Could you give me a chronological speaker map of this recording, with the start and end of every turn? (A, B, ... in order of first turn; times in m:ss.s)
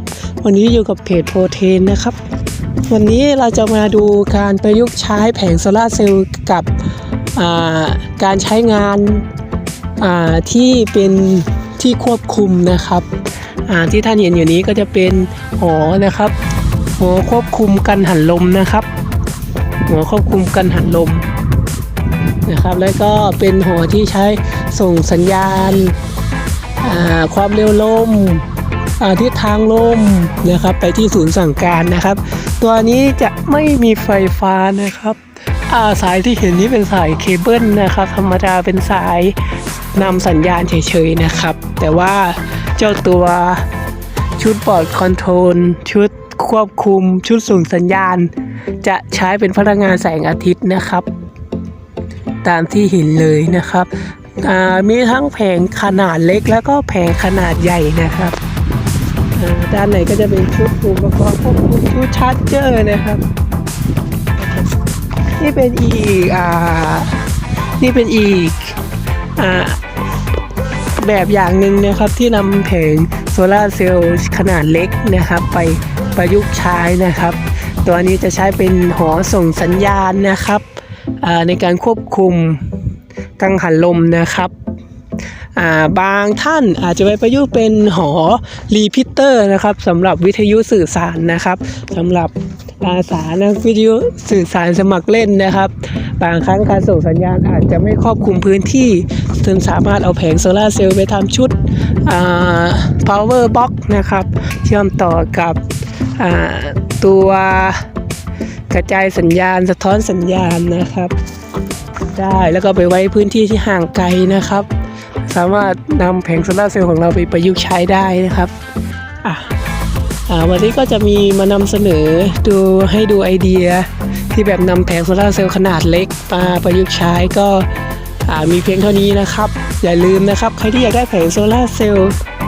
0:00.4-0:02.2 A
0:02.9-0:06.8 A
0:07.3-0:09.3 A
0:10.0-0:13.1 A
0:13.6-0:16.3 A
0:17.0-0:18.9 A
0:19.8-0:21.3 A
0:22.4-0:26.0 A
0:26.8-0:28.5 A
0:29.0-0:39.4 A
0:39.9-0:43.7 A
0:44.4-0:51.1 A
0:52.4-0:58.4 A
0:59.4-1:03.2 A
1:05.3-1:07.3 A
1:07.8-1:08.8 A
1:09.4-1:09.8 A
1:11.0-1:20.6 A
1:21.2-1:22.8 A
1:23.4-1:24.5 A
1:25.5-1:45.6 A
1:46.2-1:47.9 A
1:48.7-1:51.1 A
1:52.1-1:54.7 A
1:55.3-1:58.5 A
1:59.2-1:59.5 A
2:00.3-2:07.7 A
2:08.2-2:12.2 A